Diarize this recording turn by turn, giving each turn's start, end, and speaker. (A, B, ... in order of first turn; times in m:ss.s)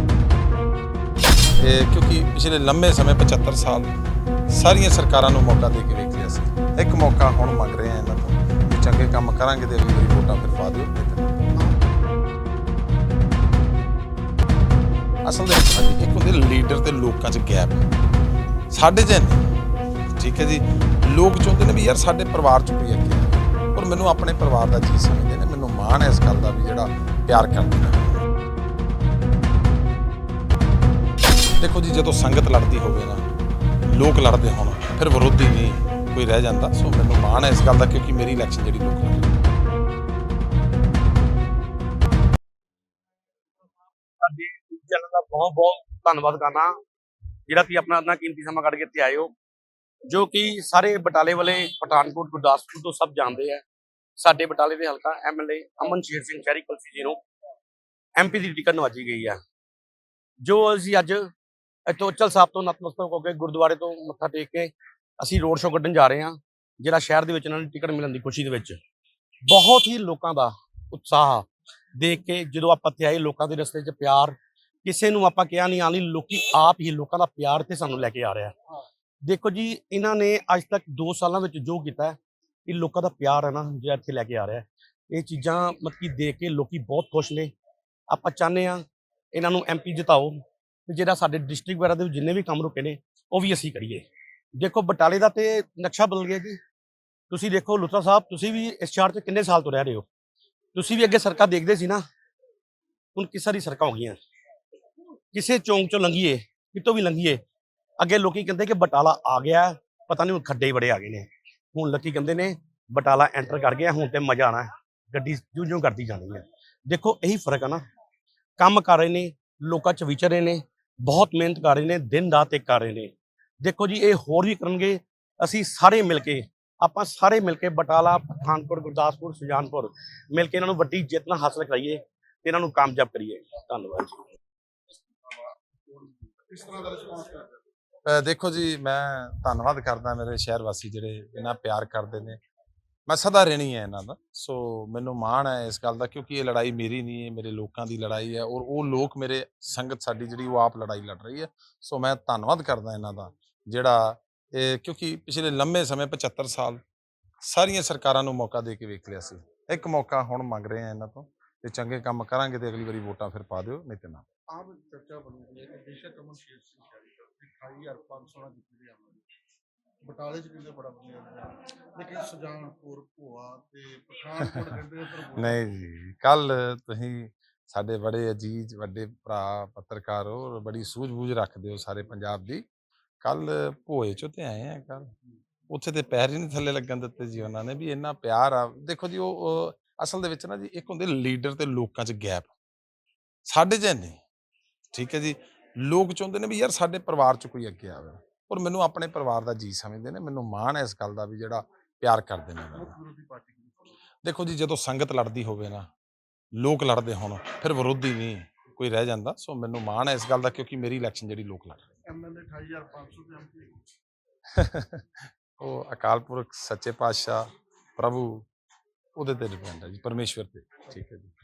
0:01.6-0:03.9 A
0:04.5-0:11.4 A
0:11.6-0:11.9 B
0:15.2-0:17.8 A
0:18.7-0:19.5 A
0:20.2-0:28.2 A
0:31.6-0:33.2 A
0:33.9-0:39.3 A
0:44.2-0:46.7 C
0:47.5-0:49.3 C
0:50.1-0:53.6 C
0:54.2-0:57.2 C
0:58.2-0:59.4 C
1:00.4-1:01.2 C
1:01.9-1:08.8 C
1:09.5-1:18.6 C
1:19.2-1:27.5 C
1:28.1-1:34.0 C
1:34.6-1:36.6 C
1:37.3-1:40.1 C
1:40.7-1:42.0 C
1:43.2-1:44.2 C
1:45.3-1:47.4 C
1:48.0-1:57.8 C
1:58.6-2:03.1 C
2:03.6-2:14.2 C
2:15.3-2:17.5 B
2:18.1-2:22.4 A
2:23.1-2:36.8 A
2:37.4-2:44.2 A
2:44.5-2:49.2 B
2:50.0-2:55.6 B
2:54.4-2:54.7 A
2:55.3-3:02.6 A
3:03.2-3:05.1 A
3:05.7-3:12.5 A
3:13.4-3:14.2 A
3:14.9-3:23.0 A
3:22.7-3:23.9 B
3:24.2-3:25.9 A
3:26.6-3:31.9 A
3:32.1-3:33.9 B
3:34.5-3:37.5 A
3:38.0-3:38.5 A
3:39.2-3:41.3 A